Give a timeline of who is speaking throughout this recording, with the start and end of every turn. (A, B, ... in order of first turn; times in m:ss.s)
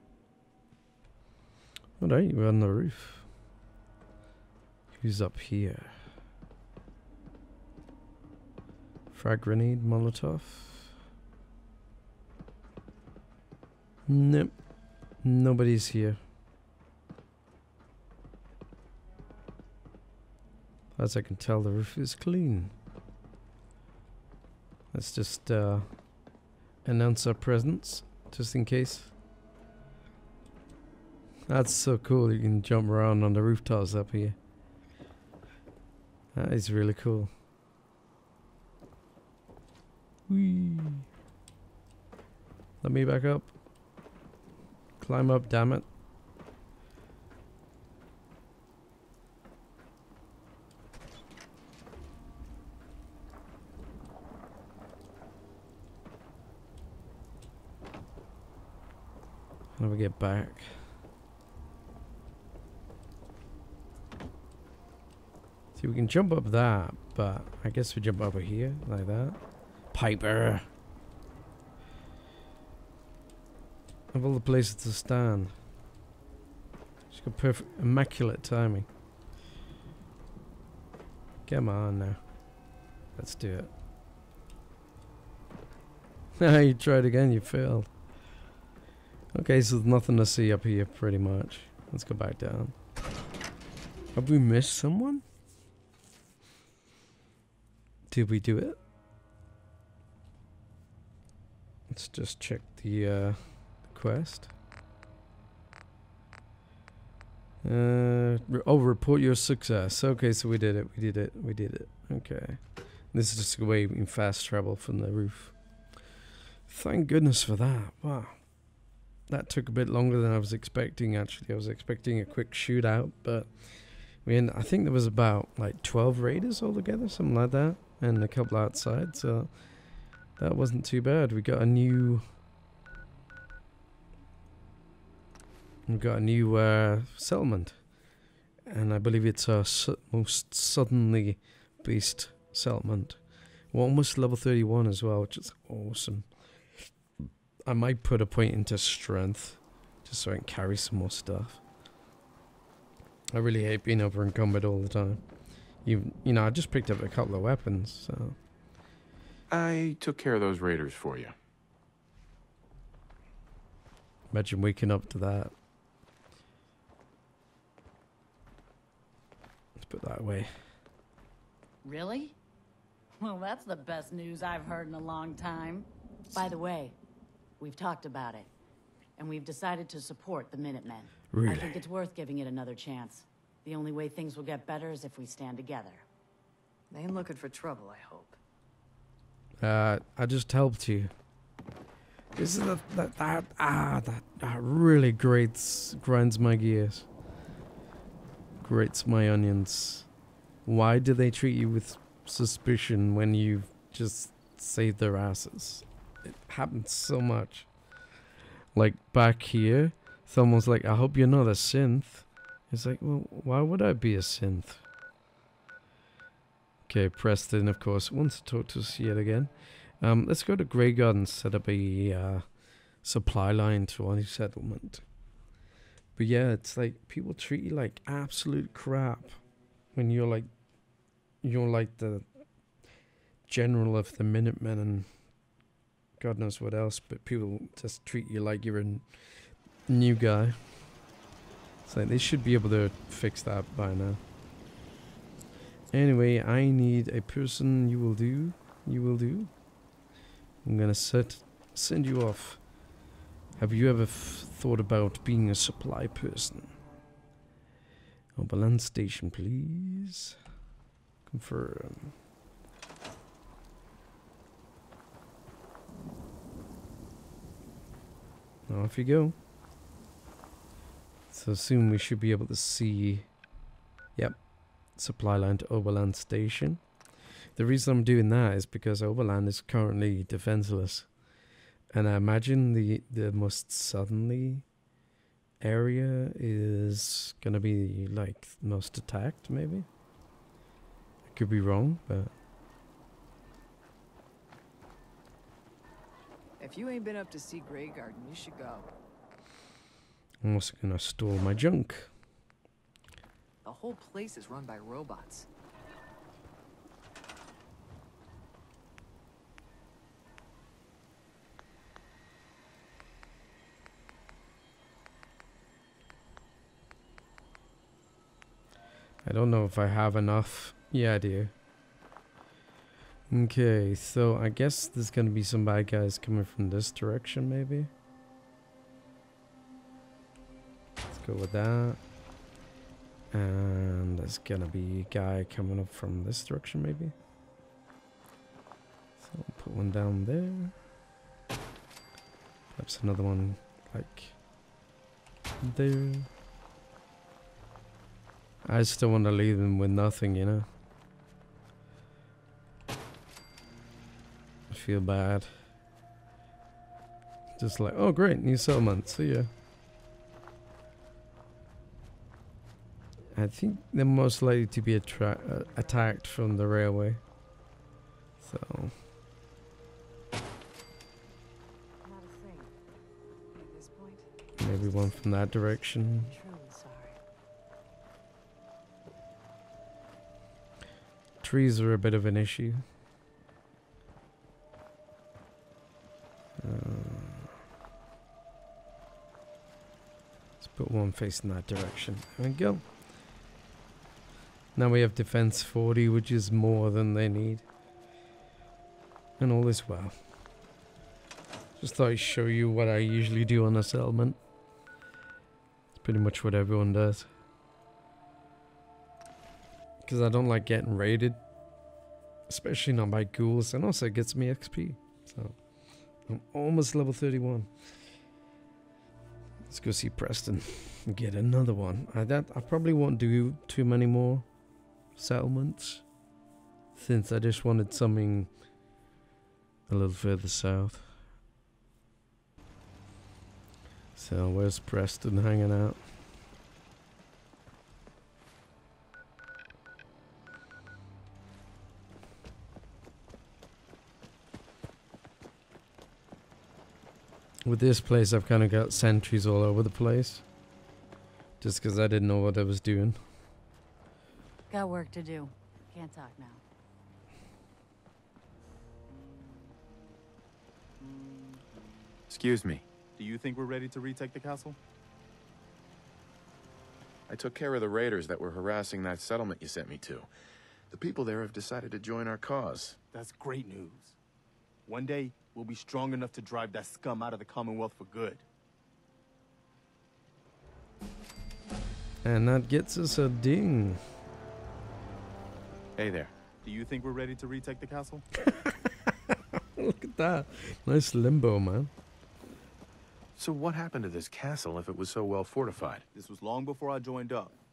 0:02.0-0:03.3 A
0:05.0-0:06.0 A
0:09.1-0:10.9 A
0:14.1-0:14.5 A
0:15.2-0:16.2 A
0:21.0-0:22.7 A
0:24.9-0:25.9 A
0:26.8-0:29.1 A
0:31.5-0:34.4 A
0:36.3-0:37.3 A
0:40.3-0:41.1 A
0:42.8-0:43.5 A
0:45.0-0:45.9 A
0:59.8-1:00.8 A
1:05.8-1:09.4 A
1:09.9-1:10.7 A
1:14.1-1:15.5 A
1:17.1-1:18.9 A
1:21.5-1:22.2 A
1:23.2-1:23.7 A
1:26.4-1:27.9 A
1:29.3-1:32.8 A
1:34.1-1:35.2 A
1:38.1-1:38.8 A
1:41.9-1:44.5 A
1:47.6-1:55.6 A
1:56.7-1:58.4 A
1:59.3-2:09.6 A
2:10.4-2:12.2 A
2:15.9-2:17.8 A
2:18.7-2:26.4 A
2:27.7-2:31.6 A
2:33.3-2:35.2 A
2:35.8-2:38.4 A
2:39.5-2:41.3 B
2:44.3-2:45.5 A
2:49.8-2:50.5 A
2:51.8-2:52.4 C
2:53.2-2:57.0 C
2:57.6-2:58.5 C
2:59.2-3:06.0 C
3:01.3-3:01.8 A
3:06.9-3:08.4 D
3:09.6-3:11.1 A
3:12.4-3:17.1 A
3:18.6-3:20.1 A
3:20.7-3:27.7 A
3:28.7-3:34.8 A
3:36.9-3:45.0 A
3:46.2-3:49.4 A
3:49.9-3:50.5 A
3:51.4-3:52.3 A
3:53.5-3:55.1 A
3:56.2-4:00.8 A
4:01.9-4:04.2 A
4:05.9-4:09.5 A
4:10.6-4:12.6 A
4:13.6-4:16.8 A
4:18.4-4:20.4 A
4:21.3-4:22.1 A
4:28.7-4:29.4 A
4:31.3-4:33.3 A
4:34.2-4:36.9 A
4:37.6-4:41.1 A
4:41.9-4:44.7 A
4:45.6-4:49.9 A
4:51.3-4:52.3 A
4:56.6-4:58.9 D
5:00.4-5:02.1 A
5:03.6-5:05.5 D
5:19.2-5:21.5 A
5:23.3-5:27.9 A
5:31.1-5:32.0 A
5:33.3-5:37.1 A
5:39.2-5:40.8 A
5:42.8-5:44.4 A
5:45.6-5:46.3 A
5:48.6-5:50.7 A
5:54.7-5:55.6 A
5:57.6-5:59.5 A
6:03.4-6:07.2 A
6:05.6-6:06.1 D
6:08.4-6:09.0 A
6:12.0-6:12.7 D
6:13.5-6:17.2 D
6:14.6-6:16.3 A
6:21.4-6:22.8 A
6:26.6-6:27.5 A
6:30.6-6:32.8 A
6:34.8-6:37.6 A
6:39.4-6:40.2 A
6:41.8-6:44.4 A
6:46.0-6:47.3 A
6:50.0-6:51.4 A
6:52.5-6:55.6 A
6:56.3-6:57.7 A
6:59.7-7:04.4 A
7:05.2-7:06.0 A
7:07.0-7:08.5 A
7:09.9-7:11.2 A
7:14.2-7:16.0 A
7:27.6-7:30.4 A
7:31.6-7:33.2 A
7:34.7-7:36.6 C
7:42.3-7:42.9 B
7:43.2-7:44.8 E
7:47.3-7:50.3 B
7:50.9-7:53.0 B
7:53.1-7:54.2 E
7:54.9-7:58.4 E
8:02.2-8:04.0 A
8:06.0-8:06.3 B
8:06.6-8:08.2 E
8:09.8-8:11.9 A
8:13.4-8:16.0 B
8:16.1-8:17.6 E